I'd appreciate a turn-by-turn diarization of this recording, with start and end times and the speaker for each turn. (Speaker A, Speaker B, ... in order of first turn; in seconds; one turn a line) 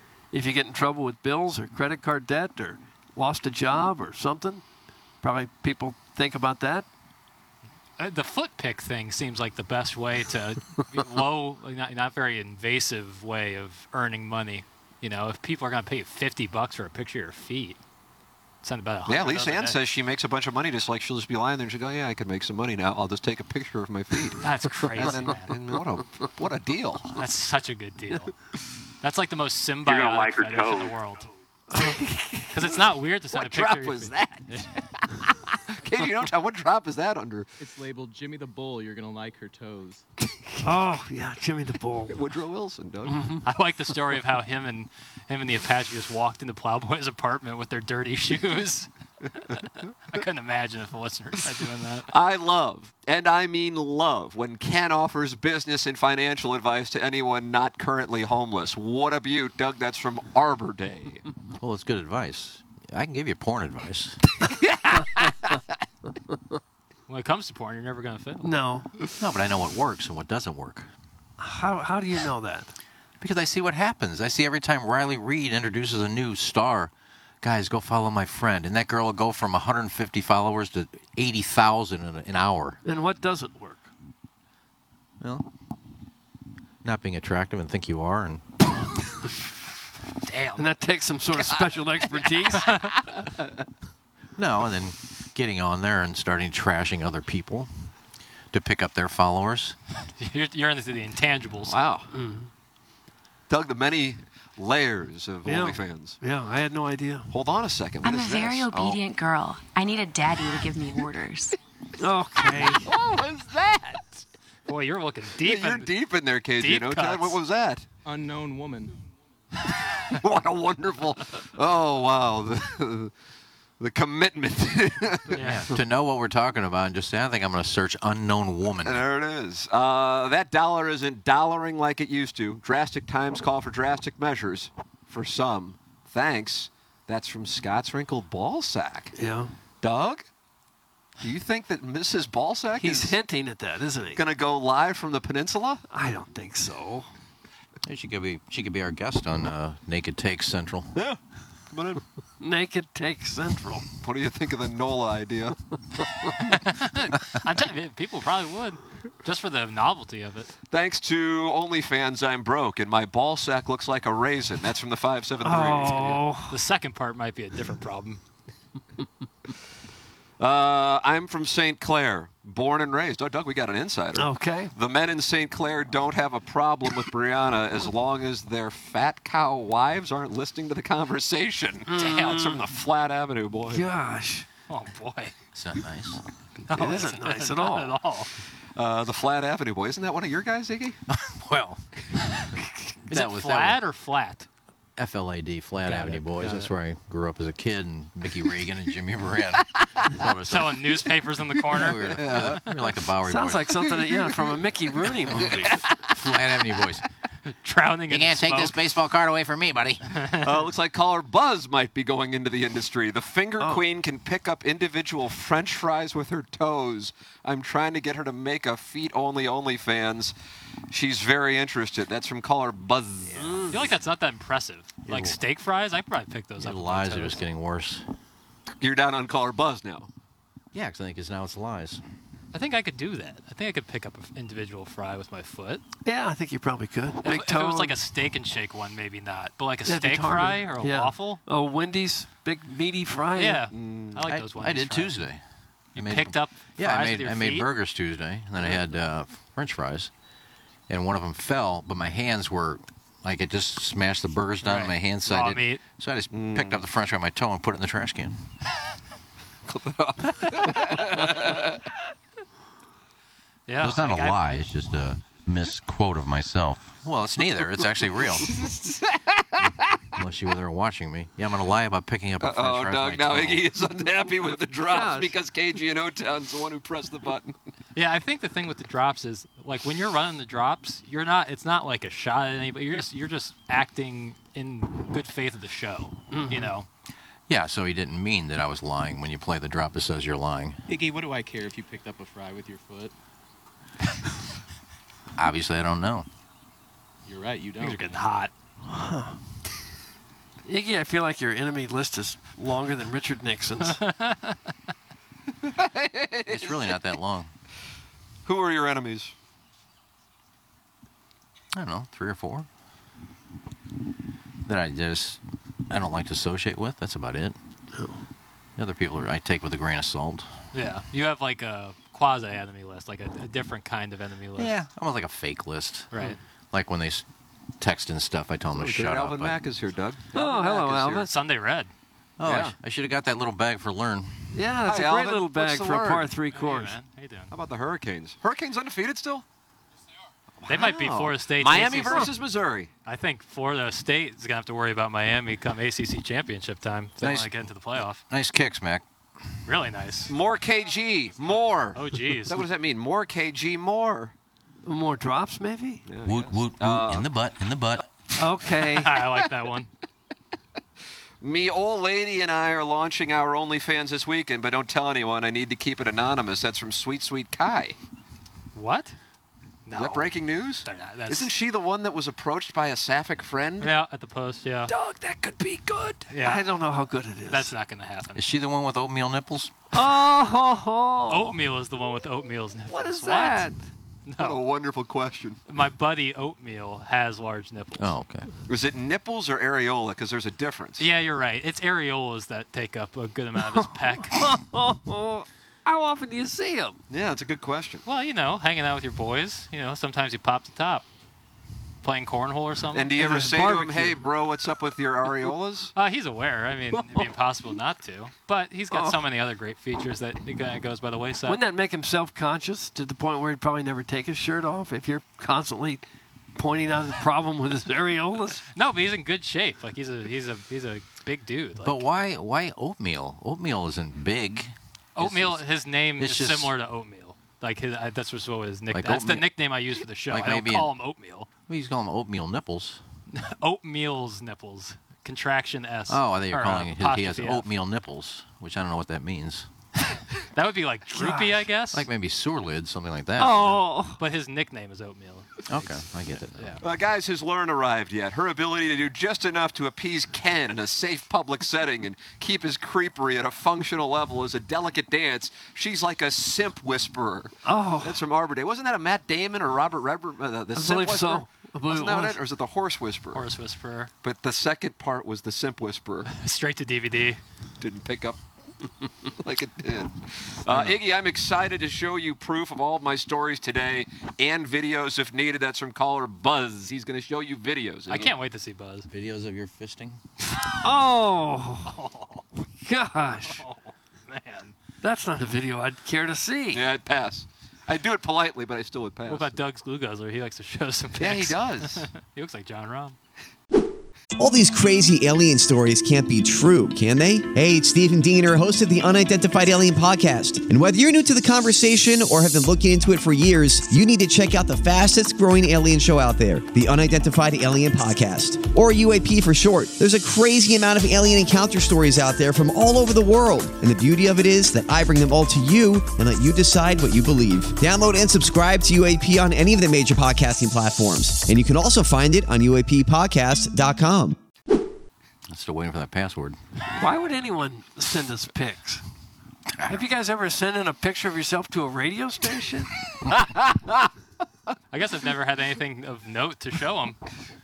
Speaker A: 0.3-4.6
Speaker A: 5.2-6.9
Speaker B: 8.0-17.8
Speaker B: 18.6-19.8
Speaker C: 19.1-27.2
Speaker B: 24.4-25.5
Speaker B: 27.1-28.3
Speaker B: 29.0-31.3
Speaker C: 29.9-30.9
Speaker A: 31.7-32.5
Speaker B: 32.5-34.7
Speaker C: 33.3-37.5
Speaker D: 37.6-40.0
Speaker A: 40.6-42.2
Speaker C: 42.1-43.4
Speaker A: 43.1-43.4
Speaker B: 43.5-52.1
Speaker C: 52.1-61.2
Speaker E: 61.6-64.2
Speaker C: 64.4-65.3
Speaker B: 67.1-68.5
Speaker A: 68.4-68.9
Speaker E: 69.2-70.9
Speaker A: 71.4-72.7
Speaker E: 73.2-82.8
Speaker A: 82.8-83.9
Speaker E: 85.2-85.5
Speaker E: 86.8-88.4
Speaker B: 90.3-90.6
Speaker A: 90.6-92.8
Speaker B: 92.6-92.9
Speaker E: 94.4-97.7
Speaker E: 98.5-99.8
Speaker B: 100.2-101.8
Speaker C: 101.7-102.1
Speaker A: 102.1-102.5
Speaker C: 103.5-106.2
Speaker A: 105.4-107.3
Speaker C: 107.3-109.0
Speaker F: 108.0-111.6
Speaker A: 112.0-112.9
Speaker C: 112.5-114.2
Speaker B: 114.7-115.9
Speaker C: 115.4-117.9
Speaker B: 116.6-117.4
Speaker D: 118.0-119.0
Speaker C: 120.0-123.1
Speaker C: 123.8-125.4
Speaker B: 125.3-125.7
Speaker E: 125.4-129.0
Speaker C: 128.8-139.1
Speaker A: 139.1-139.5
Speaker C: 139.8-140.2
Speaker C: 141.2-143.2
Speaker A: 142.8-144.2
Speaker C: 144.2-145.8
Speaker A: 145.9-147.1
Speaker E: 147.8-151.0
Speaker C: 151.7-152.0
Speaker A: 152.4-153.9
Speaker C: 154.0-155.6
Speaker B: 156.5-160.5
Speaker C: 160.7-166.2
Speaker A: 165.4-166.6
Speaker B: 166.5-168.2
Speaker C: 170.4-183.9
Speaker A: 174.1-174.7
Speaker A: 181.9-182.6
Speaker B: 182.0-182.3
Speaker A: 183.7-184.5
Speaker B: 184.7-185.3
Speaker E: 185.5-186.2
Speaker B: 186.7-188.3
Speaker A: 186.7-188.0
Speaker C: 188.8-191.0
Speaker E: 191.1-191.8
Speaker E: 193.1-193.8
Speaker B: 193.1-194.5
Speaker E: 195.0-200.8
Speaker B: 195.8-196.7
Speaker B: 200.5-202.7
Speaker E: 201.7-203.9
Speaker C: 202.0-202.6
Speaker A: 203.2-205.8
Speaker C: 204.0-204.3
Speaker E: 205.4-207.1
Speaker B: 207.5-208.8
Speaker E: 208.1-210.2
Speaker B: 210.1-210.6
Speaker C: 210.4-220.3
Speaker C: 220.9-223.9
Speaker A: 223.4-223.7
Speaker B: 223.7-227.4
Speaker E: 225.1-225.4
Speaker E: 226.6-228.1
Speaker C: 228.8-230.1
Speaker E: 230.7-232.0
Speaker B: 232.5-235.8
Speaker A: 236.1-237.9
Speaker B: 237.2-241.4
Speaker A: 239.8-243.6
Speaker B: 243.4-245.1
Speaker C: 243.7-244.2
Speaker E: 244.2-245.4
Speaker B: 245.9-247.7
Speaker E: 245.9-250.1
Speaker E: 250.9-258.4
Speaker B: 254.6-255.8
Speaker C: 256.3-256.8
Speaker C: 259.6-261.8
Speaker B: 263.7-264.4
Speaker E: 263.8-268.5
Speaker C: 268.4-269.7
Speaker E: 270.1-273.6
Speaker C: 272.4-277.6
Speaker A: 274.9-275.3
Speaker B: 277.9-286.9
Speaker A: 286.3-286.7
Speaker E: 287.5-290.8
Speaker D: 290.9-293.1
Speaker E: 295.4-296.3
Speaker D: 297.2-298.2
Speaker B: 297.8-298.5
Speaker A: 298.9-299.4
Speaker A: 300.6-304.0
Speaker B: 303.9-304.6
Speaker C: 305.6-306.8
Speaker E: 306.5-307.5
Speaker C: 308.4-309.3
Speaker E: 311.7-312.7
Speaker E: 314.6-317.6
Speaker A: 317.9-318.2
Speaker E: 318.8-320.5
Speaker B: 320.7-324.7
Speaker E: 324.6-326.1
Speaker B: 326.1-326.4
Speaker E: 326.7-327.2
Speaker E: 327.8-329.6
Speaker C: 328.7-331.3
Speaker A: 330.3-331.3
Speaker B: 331.2-331.9
Speaker E: 332.4-334.6
Speaker C: 332.4-332.7
Speaker A: 334.5-336.9
Speaker C: 334.9-336.3
Speaker B: 336.5-337.5
Speaker C: 337.5-339.4
Speaker C: 340.6-342.9
Speaker B: 340.7-342.3
Speaker B: 343.1-348.2
Speaker E: 347.2-347.5
Speaker E: 348.3-349.1
Speaker B: 349.6-350.3
Speaker C: 350.3-354.3
Speaker B: 351.9-352.6
Speaker A: 354.9-356.1
Speaker C: 356.1-357.3
Speaker E: 356.2-358.1
Speaker A: 358.4-359.1
Speaker B: 358.9-359.9
Speaker C: 361.4-368.0
Speaker B: 368.7-369.1
Speaker B: 369.9-371.5
Speaker C: 369.9-373.9
Speaker B: 373.8-374.9
Speaker C: 374.9-376.3
Speaker B: 376.3-376.6
Speaker A: 376.4-377.7
Speaker B: 377.5-378.4
Speaker E: 378.4-379.8
Speaker A: 379.9-381.6
Speaker B: 381.3-383.7
Speaker C: 383.0-383.6
Speaker A: 383.0-383.6
Speaker B: 384.3-384.6
Speaker C: 384.4-385.6
Speaker B: 385.7-388.1
Speaker E: 388.0-388.5
Speaker C: 388.7-391.1
Speaker B: 391.0-394.4
Speaker A: 394.3-397.0
Speaker C: 397.1-398.0
Speaker B: 398.1-401.1
Speaker B: 402.0-403.1
Speaker C: 402.9-405.9
Speaker A: 403.1-404.2
Speaker B: 405.9-411.6
Speaker A: 406.9-407.3
Speaker A: 408.9-409.2
Speaker A: 411.4-416.0
Speaker A: 416.6-418.6
Speaker B: 418.7-422.0
Speaker E: 421.8-425.6
Speaker B: 425.2-431.5
Speaker E: 426.2-426.7
Speaker E: 428.9-429.5
Speaker E: 430.3-430.9
Speaker E: 431.7-433.0
Speaker B: 433.3-437.7
Speaker E: 436.1-439.7
Speaker B: 440.1-442.1
Speaker A: 441.1-441.5
Speaker E: 441.9-443.8
Speaker A: 443.4-444.2
Speaker B: 444.2-446.0
Speaker E: 445.7-446.8
Speaker B: 446.6-446.8
Speaker C: 446.8-463.4
Speaker A: 457.7-458.2
Speaker A: 460.7-462.4
Speaker B: 463.3-464.1
Speaker C: 464.2-466.3
Speaker B: 466.3-467.4
Speaker C: 467.8-468.4
Speaker C: 469.3-478.3
Speaker B: 478.1-479.1
Speaker E: 479.1-480.2
Speaker A: 480.7-481.9
Speaker B: 481.9-482.4
Speaker A: 482.8-483.6
Speaker B: 483.5-484.8
Speaker A: 485.0-486.8
Speaker C: 486.7-489.6
Speaker B: 489.3-493.2
Speaker C: 491.2-492.1
Speaker G: 494.4-524.4
Speaker E: 525.5-526.6
Speaker A: 527.0-529.0
Speaker A: 529.9-532.9
Speaker C: 533.3-534.1
Speaker B: 534.9-537.2